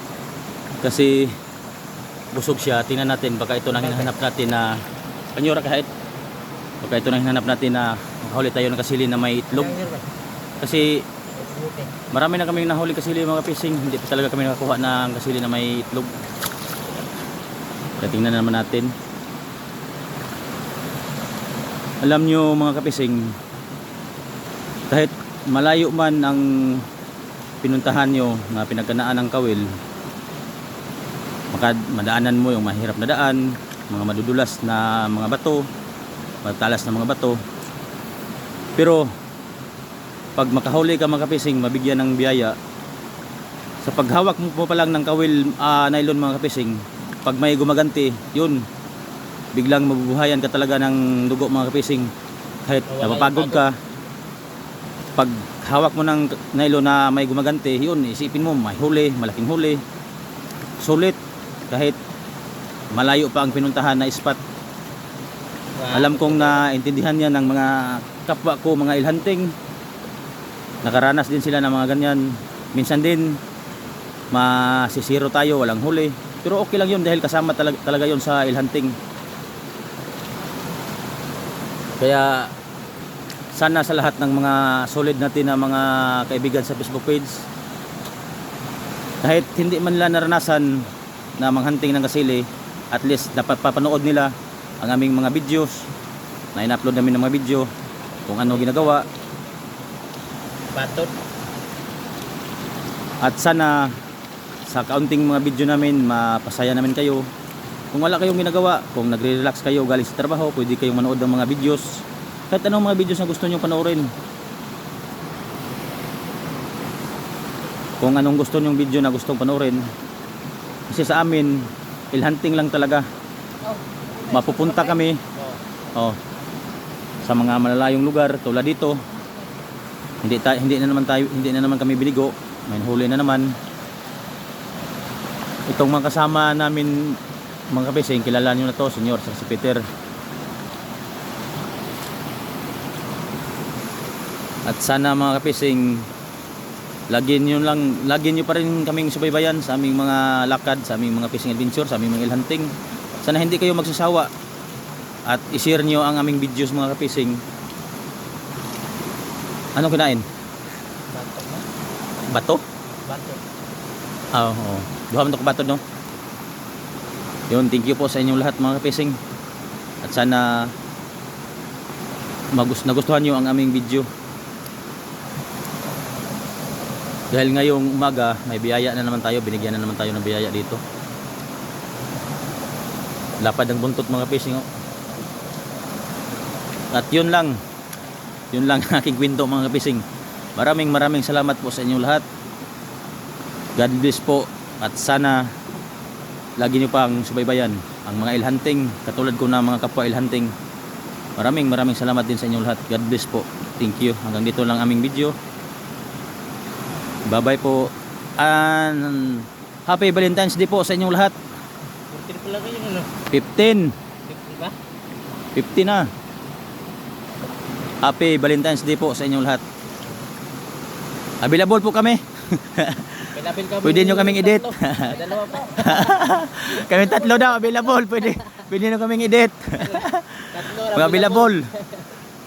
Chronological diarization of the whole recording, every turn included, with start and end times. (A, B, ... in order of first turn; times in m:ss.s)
0:00.8-0:01.4 A
0:02.3-0:04.8 A
0:03.7-0:04.1 B
0:05.3-0:05.9 A
0:06.8-0:09.8 A
0:09.5-0:10.0 B
0:10.6-0:11.0 A
0:11.4-0:11.9 B
0:12.1-0:16.1 A
0:18.0-0:18.9 A
0:22.0-0:23.4 A
0:24.9-0:26.8 A
0:27.6-0:29.7 A
0:31.5-0:35.7 A
0:36.4-0:37.4 A
0:38.8-0:39.1 A
0:40.4-0:42.6 A
0:43.8-0:48.6 A
0:49.5-0:52.1 A
0:52.6-0:53.7 A
0:52.9-0:53.7 B
0:55.2-0:59.8 A
1:00.8-1:01.2 A
1:01.7-1:02.0 A
1:02.9-1:04.4 A
1:05.8-1:06.6 B
1:05.9-1:09.5 A
1:10.8-1:13.4 A
1:14.3-1:19.0 A
1:22.0-1:22.5 A
1:23.5-1:27.5 A
1:29.2-1:30.9 A
1:31.4-1:35.9 A
1:36.5-1:37.7 A
1:38.3-1:39.0 A
1:38.4-1:39.2 B
1:40.7-1:41.2 B
1:43.2-1:43.9 A
1:44.7-1:47.3 A
1:47.9-1:54.1 A
1:58.0-1:59.9 A
2:00.9-2:03.0 A
2:03.6-2:05.6 B
2:04.3-2:05.2 A
2:07.2-2:09.0 A
2:10.2-2:13.5 A
2:15.7-2:17.2 A
2:17.7-2:19.8 A
2:24.6-2:26.0 A
2:27.1-2:34.3 A
2:35.3-2:37.4 A
2:39.8-2:40.2 A
2:41.1-2:41.6 B
2:42.3-2:42.6 A
2:43.0-2:43.4 B
2:44.3-2:45.8 A
2:47.5-2:49.2 A
2:50.0-2:50.7 A
2:52.5-2:54.1 A
2:57.3-3:00.8 A
3:03.4-3:04.6 A
3:06.9-3:07.6 A
3:08.5-3:10.0 A
3:10.6-3:12.2 A
3:13.8-3:15.5 A
3:16.6-3:20.5 A
3:21.4-3:25.4 A
3:27.3-3:31.3 A
3:32.1-3:33.1 B
3:33.3-3:33.9 A
3:34.2-3:34.8 B
3:35.5-3:36.1 A
3:38.0-3:39.6 A
3:41.4-3:43.3 A
3:43.3-3:47.7 B
3:43.8-3:45.2 A
3:45.7-3:51.7 A
3:49.8-3:52.0 B